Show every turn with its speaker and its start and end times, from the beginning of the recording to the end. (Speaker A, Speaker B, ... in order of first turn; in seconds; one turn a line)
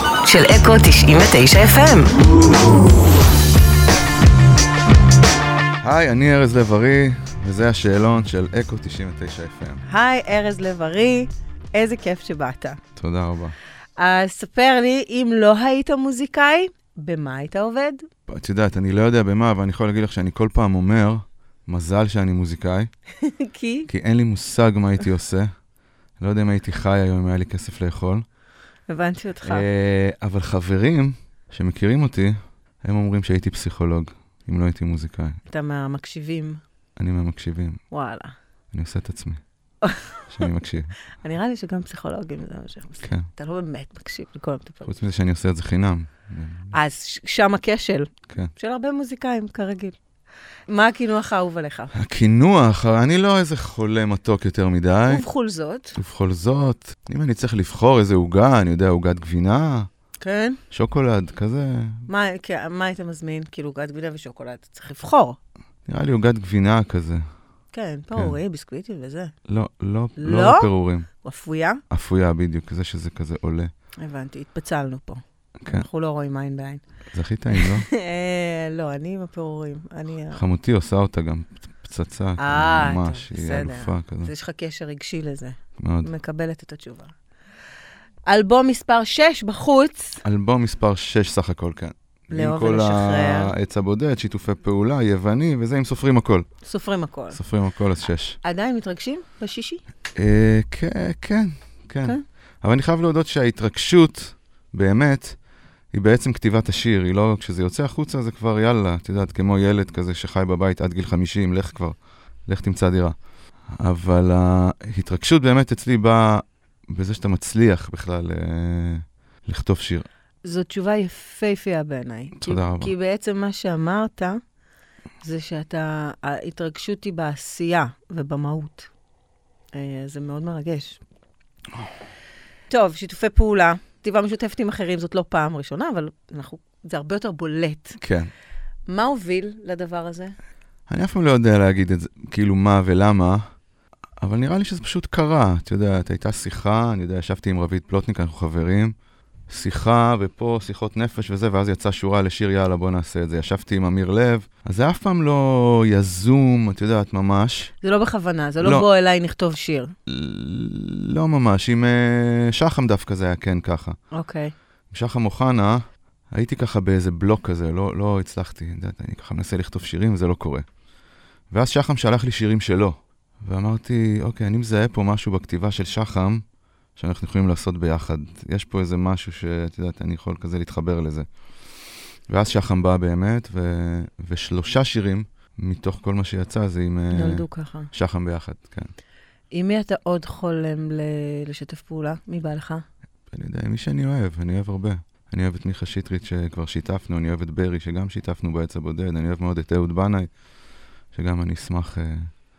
Speaker A: 0.2-2.1
Speaker B: 5.8-9.8
Speaker A: 9.9-12.8
Speaker B: 13.0-13.6
Speaker A: 14.0-18.0
Speaker B: 18.3-22.9
Speaker A: 23.2-23.9
Speaker B: 23.9-25.5
Speaker B: 26.2-28.2
Speaker A: 28.9-29.6
Speaker B: 29.4-35.4
Speaker A: 35.5-36.6
Speaker B: 37.0-37.8
Speaker A: 37.9-38.4
Speaker B: 38.7-39.4
Speaker A: 39.8-40.5
Speaker B: 40.3-40.9
Speaker A: 41.2-45.0
Speaker B: 44.9-46.7
Speaker A: 46.7-50.0
Speaker A: 50.7-51.9
Speaker B: 51.9-55.2
Speaker A: 55.1-56.0
Speaker B: 56.0-59.9
Speaker A: 60.2-60.6
Speaker B: 60.7-62.1
Speaker A: 62.1-65.4
Speaker B: 65.9-67.2
Speaker A: 67.7-69.3
Speaker B: 68.1-68.4
Speaker B: 69.5-71.1
Speaker A: 70.2-70.7
Speaker A: 71.2-71.8
Speaker B: 71.9-73.7
Speaker A: 74.0-76.8
Speaker B: 75.6-75.9
Speaker B: 77.1-77.9
Speaker A: 77.5-80.4
Speaker B: 80.3-84.3
Speaker A: 82.4-87.1
Speaker B: 85.8-86.1
Speaker A: 88.3-90.2
Speaker B: 90.2-96.5
Speaker A: 92.3-93.5
Speaker A: 96.6-97.4
Speaker B: 97.3-98.4
Speaker A: 98.4-99.8
Speaker B: 100.2-105.4
Speaker B: 105.9-112.0
Speaker B: 112.5-113.2
Speaker B: 113.8-120.1
Speaker A: 120.4-124.4
Speaker B: 122.4-122.9
Speaker A: 125.2-128.9
Speaker A: 129.7-131.0
Speaker A: 132.7-138.0
Speaker B: 138.0-138.3
Speaker A: 138.9-140.3
Speaker B: 140.9-143.4
Speaker B: 144.2-148.9
Speaker B: 149.5-157.7
Speaker A: 157.8-159.9
Speaker B: 158.6-158.9
Speaker B: 160.1-164.0
Speaker A: 164.1-164.5
Speaker B: 164.9-165.8
Speaker B: 166.3-170.6
Speaker B: 171.5-176.4
Speaker B: 177.0-181.3
Speaker B: 182.3-188.9
Speaker A: 187.1-187.9
Speaker A: 189.5-192.8
Speaker B: 193.3-200.3
Speaker B: 201.1-202.3